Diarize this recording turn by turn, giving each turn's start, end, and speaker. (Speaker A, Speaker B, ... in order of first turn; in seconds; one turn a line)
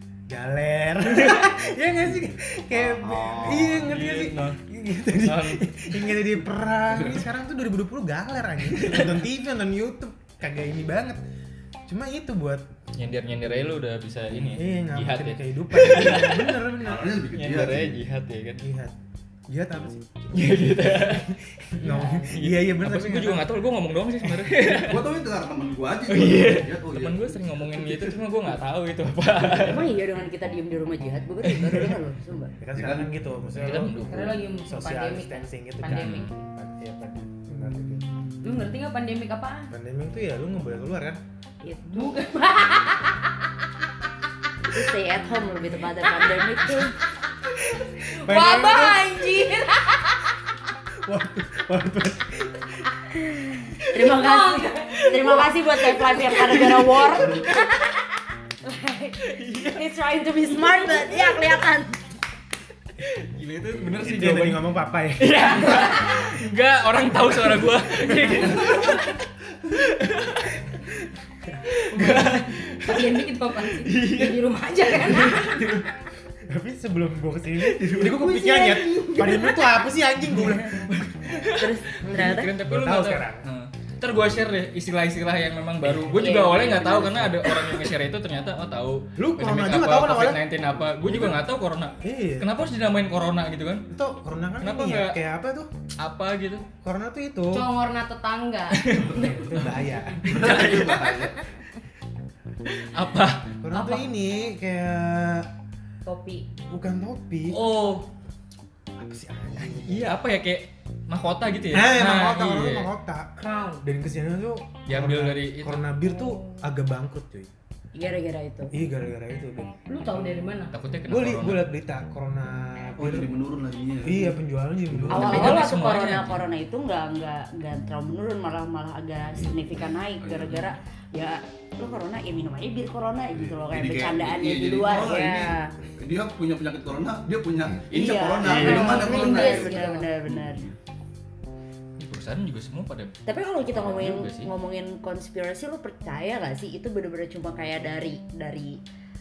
Speaker A: 0.3-11.2
Speaker B: 1.2-1.5
Speaker C: 2.8-3.7
Speaker B: 3.2-6.3
Speaker B: 6.9-7.2
Speaker B: 8.7-9.2
Speaker A: 11.9-12.7
Speaker B: 12.9-16.7
Speaker A: 14.3-17.2
Speaker C: 16.8-18.0
Speaker B: 17.3-18.6
Speaker A: 18.6-18.9
Speaker A: 19.5-23.6
Speaker B: 20.3-21.3
Speaker D: 21.8-22.3
Speaker B: 22.3-25.1
Speaker A: 24.2-24.5
Speaker C: 24.8-28.1
Speaker B: 26.1-29.9
Speaker E: 29.6-32.5
Speaker B: 31.4-32.0
Speaker A: 32.6-38.0
Speaker C: 32.7-33.1
Speaker B: 33.5-34.4
Speaker D: 33.9-36.5
Speaker B: 35.9-36.3
Speaker D: 38.4-39.7
Speaker A: 39.7-41.2
Speaker D: 41.6-43.2
Speaker E: 41.7-42.1
Speaker E: 44.6-47.0
Speaker D: 48.0-50.1
Speaker A: 48.2-49.1
Speaker A: 51.0-52.9
Speaker E: 53.7-57.8
Speaker B: 53.9-54.2
Speaker D: 54.1-55.5
Speaker B: 55.1-57.7
Speaker E: 58.6-62.0
Speaker B: 59.2-59.9
Speaker B: 60.4-61.4
Speaker B: 63.0-70.8
Speaker A: 64.0-66.0
Speaker A: 68.1-68.7
Speaker B: 71.7-75.9
Speaker D: 72.0-75.7
Speaker A: 76.5-81.1
Speaker B: 77.6-79.7
Speaker C: 78.1-79.2
Speaker B: 80.2-93.8
Speaker E: 81.5-82.5
Speaker A: 82.0-83.5
Speaker A: 85.8-86.4
Speaker E: 86.1-87.9
Speaker A: 89.2-90.4
Speaker A: 92.0-92.5
Speaker A: 93.9-95.7
Speaker B: 94.6-95.2
Speaker B: 96.0-96.7
Speaker A: 96.8-97.7
Speaker D: 97.5-99.0
Speaker B: 98.7-101.3
Speaker C: 99.1-99.3
Speaker A: 99.1-100.5
Speaker C: 100.2-101.4
Speaker B: 102.7-103.5
Speaker A: 103.6-105.5
Speaker D: 103.7-104.0
Speaker D: 106.0-106.5
Speaker A: 106.7-107.6
Speaker B: 107.5-108.0
Speaker A: 109.0-110.1
Speaker B: 109.6-112.9
Speaker A: 111.7-117.5
Speaker D: 113.4-113.8
Speaker B: 114.9-115.9
Speaker E: 117.9-118.7
Speaker A: 118.7-119.7
Speaker D: 119.9-120.7
Speaker B: 120.7-121.7
Speaker A: 121.1-123.3
Speaker C: 123.0-124.4
Speaker A: 124.0-125.7
Speaker C: 124.9-125.5
Speaker E: 125.1-135.8
Speaker B: 125.1-126.4
Speaker C: 130.2-130.5
Speaker C: 133.3-140.7
Speaker E: 137.9-140.6
Speaker B: 138.4-139.1
Speaker D: 138.5-140.1
Speaker B: 142.0-144.5
Speaker E: 143.2-148.8